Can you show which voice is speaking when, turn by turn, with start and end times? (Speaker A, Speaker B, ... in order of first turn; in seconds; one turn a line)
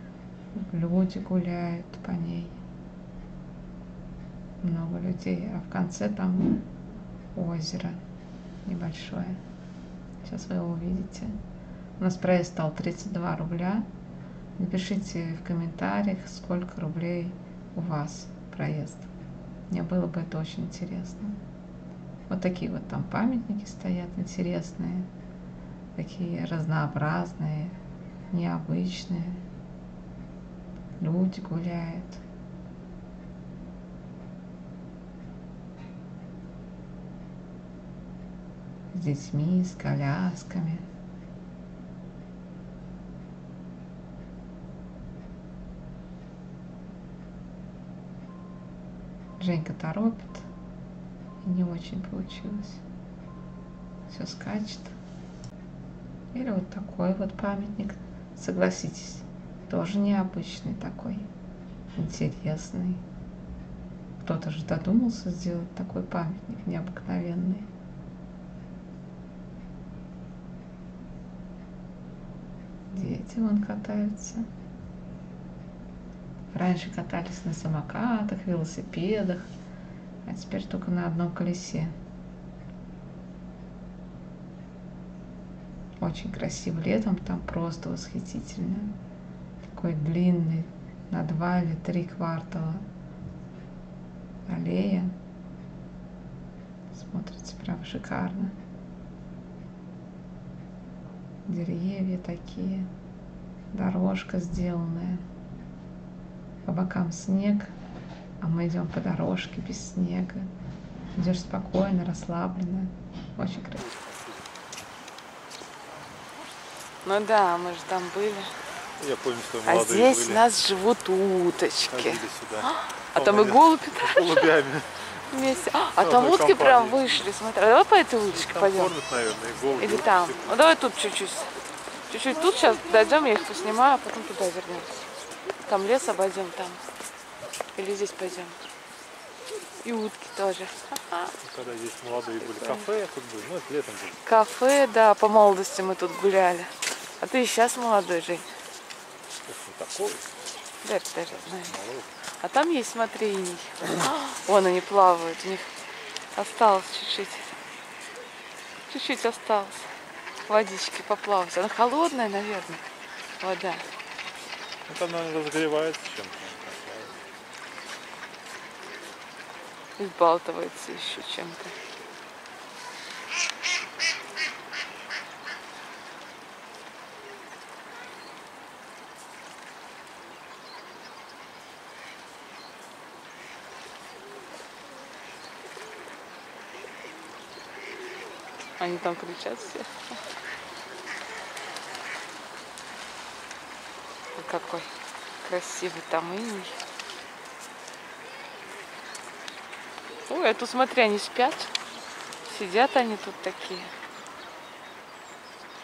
Speaker A: 0.5-2.6
Speaker A: 4.6-6.6
Speaker A: 7.3-8.0
Speaker A: 8.7-9.4
Speaker A: 10.2-11.3
Speaker A: 12.0-13.9
Speaker A: 14.6-19.1
Speaker A: 19.7-21.4
Speaker A: 22.3-25.1
Speaker A: 25.9-27.8
Speaker A: 28.3-29.4
Speaker A: 31.0-32.2
Speaker A: 38.9-40.9
Speaker A: 49.4-50.5
Speaker A: 51.4-52.8
Speaker A: 54.1-54.9
Speaker A: 56.3-61.3
Speaker A: 62.0-63.0
Speaker A: 64.2-67.7
Speaker A: 72.9-74.5
Speaker A: 76.5-79.5
Speaker A: 80.2-81.9
Speaker A: 86.0-89.0
Speaker A: 89.7-92.9
Speaker A: 94.5-95.2
Speaker A: 96.9-98.6
Speaker A: 101.5-102.9
Speaker A: 103.7-105.2
Speaker A: 106.7-107.7
Speaker A: 108.4-110.5
Speaker A: 111.2-113.9
Speaker B: 113.8-114.7
Speaker C: 117.0-118.5
Speaker B: 119.0-120.4
Speaker C: 119.7-124.5
Speaker B: 121.9-125.2
Speaker C: 125.3-128.9
Speaker B: 126.0-127.3
Speaker B: 128.3-130.5
Speaker C: 129.8-131.5
Speaker C: 132.1-135.1
Speaker C: 135.7-136.8
Speaker C: 137.8-138.6
Speaker C: 139.8-141.3
Speaker B: 141.4-144.2
Speaker C: 142.4-142.9
Speaker C: 144.2-148.5
Speaker B: 149.5-150.4
Speaker C: 150.8-151.8
Speaker B: 151.3-152.1
Speaker C: 152.4-155.7
Speaker C: 156.3-157.6
Speaker C: 158.9-159.9
Speaker C: 160.5-162.8
Speaker C: 163.4-163.8
Speaker B: 164.9-167.2
Speaker C: 170.0-171.7
Speaker C: 188.8-190.2
Speaker C: 194.3-194.9
Speaker C: 195.4-196.8
Speaker C: 200.3-201.7
Speaker C: 202.4-203.9